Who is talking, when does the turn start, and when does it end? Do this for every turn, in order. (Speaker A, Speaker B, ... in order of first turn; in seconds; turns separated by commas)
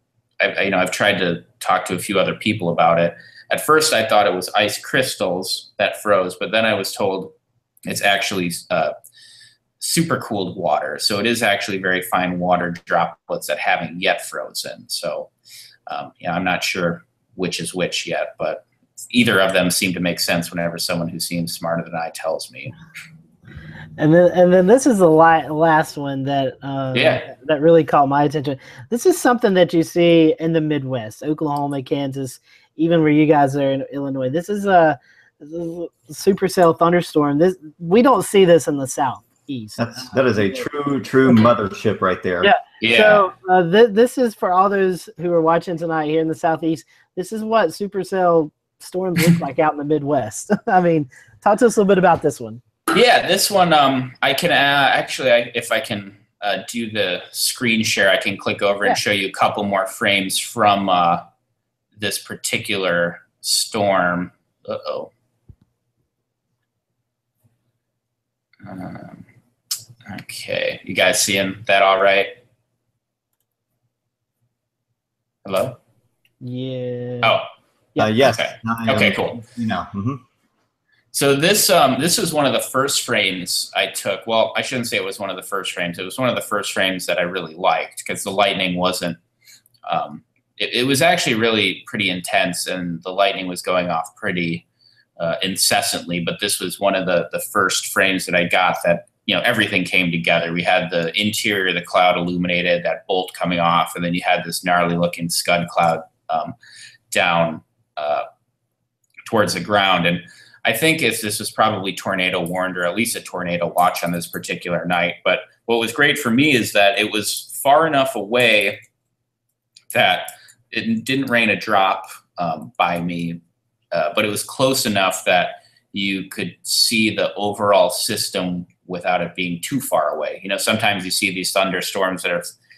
Speaker A: 0.4-7.3, Speaker A: 7.8-8.9, Speaker A: 9.8-15.3, Speaker A: 15.9-22.7, Speaker B: 24.0-40.6, Speaker A: 26.9-27.3, Speaker C: 39.8-42.5, Speaker B: 42.4-52.6, Speaker A: 42.8-43.2, Speaker A: 52.9-61.2, Speaker A: 62.0-65.1, Speaker A: 68.6-69.2, Speaker A: 70.0-72.3, Speaker A: 75.4-75.8, Speaker B: 76.4-77.4, Speaker C: 78.0-80.2, Speaker A: 78.2-79.4, Speaker A: 81.1-89.2, Speaker A: 89.8-94.6, Speaker A: 95.2-106.5, Speaker A: 107.1-108.2, Speaker A: 109.2-118.8, Speaker A: 119.9-123.4, Speaker A: 123.9-132.5